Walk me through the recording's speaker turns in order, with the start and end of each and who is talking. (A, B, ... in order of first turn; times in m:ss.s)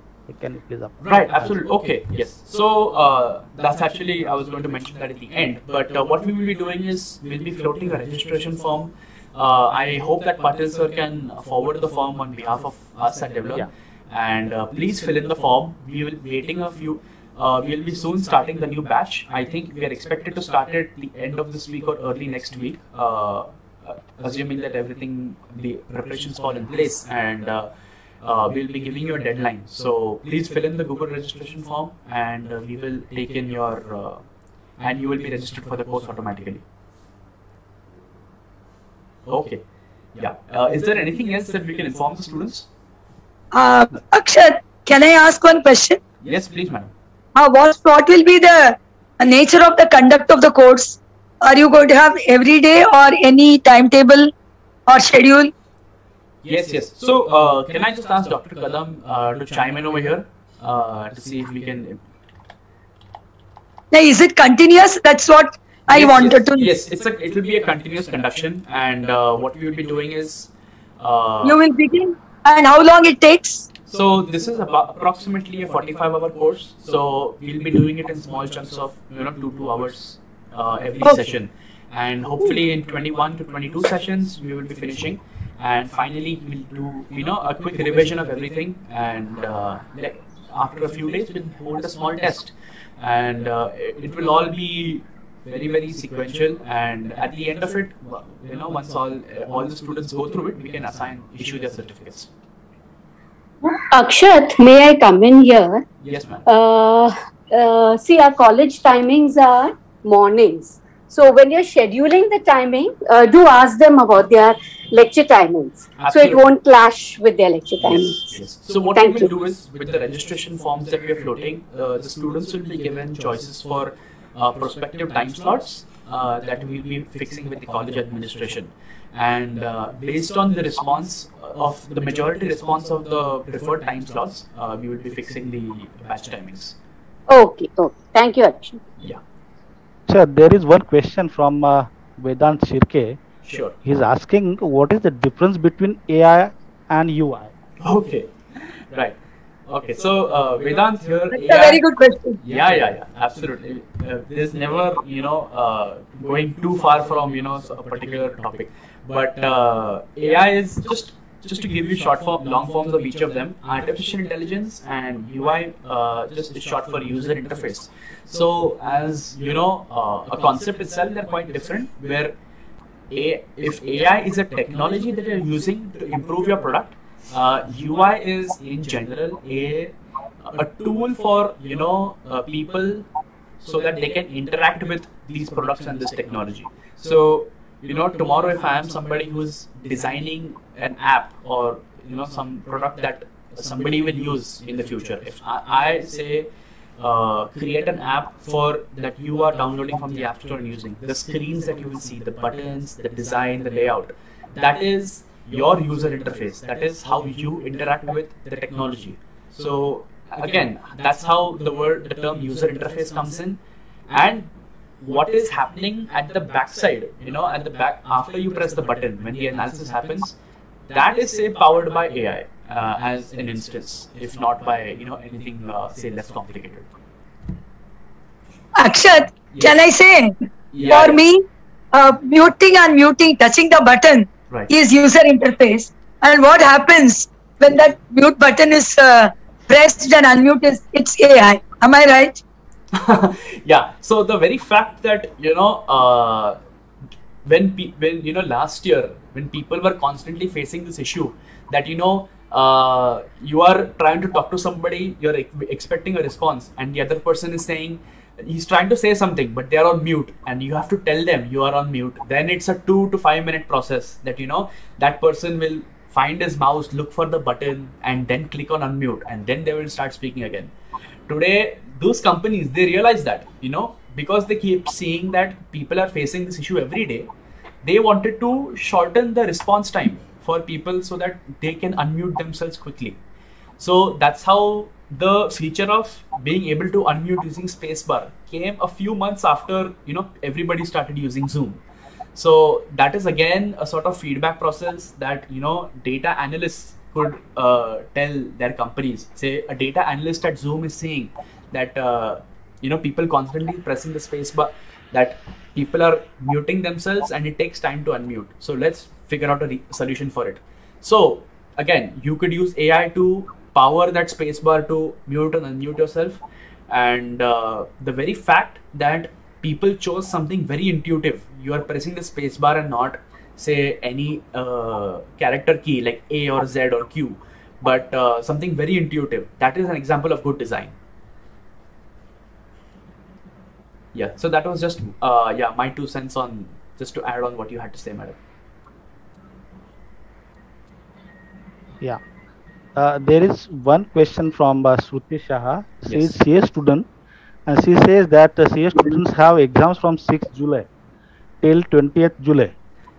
0:00.3-0:01.6 A
0:01.0-0:27.7 B
0:28.2-0:34.2 B
0:34.8-0:36.6 B
0:39.2-0:39.6 B
0:40.2-0:42.7 B
0:43.5-0:46.0 C
0:46.2-0:46.9 B
0:47.4-0:54.3 C
0:54.9-0:55.5 C
0:56.4-1:02.0 B
1:03.9-1:06.7 C
1:05.9-1:11.6 B
1:11.4-1:13.7 C
1:13.9-1:42.3 B
1:43.6-1:45.8 D
1:46.0-1:46.4 B
1:46.4-1:58.2 D
1:56.0-1:56.4 B
1:57.8-2:16.7 B
1:58.9-1:59.3 D
2:17.3-2:18.8 D
2:20.1-2:23.2 A
2:23.4-2:23.8 B
2:23.8-2:27.5 A
2:27.8-2:29.2 B
2:29.7-2:31.8 B
2:31.3-2:32.4 C
2:32.4-2:52.3 B
2:53.1-3:03.0 B
3:03.6-3:33.6 B
3:34.1-3:34.5 B
3:35.0-3:40.3 B
3:40.9-3:46.9 B
3:48.8-3:50.3 C
3:50.7-3:51.2 B
3:50.9-4:02.4 C
4:02.9-4:06.6 B
4:07.4-4:30.7 B
4:31.3-4:37.3 B
4:37.8-4:43.2 B
4:43.8-4:51.8 B
4:52.3-5:30.9 B
5:34.1-5:38.4 B
5:43.0-5:47.1 A
5:46.1-5:46.3 B
5:47.6-5:50.9 A
5:51.6-5:52.7 A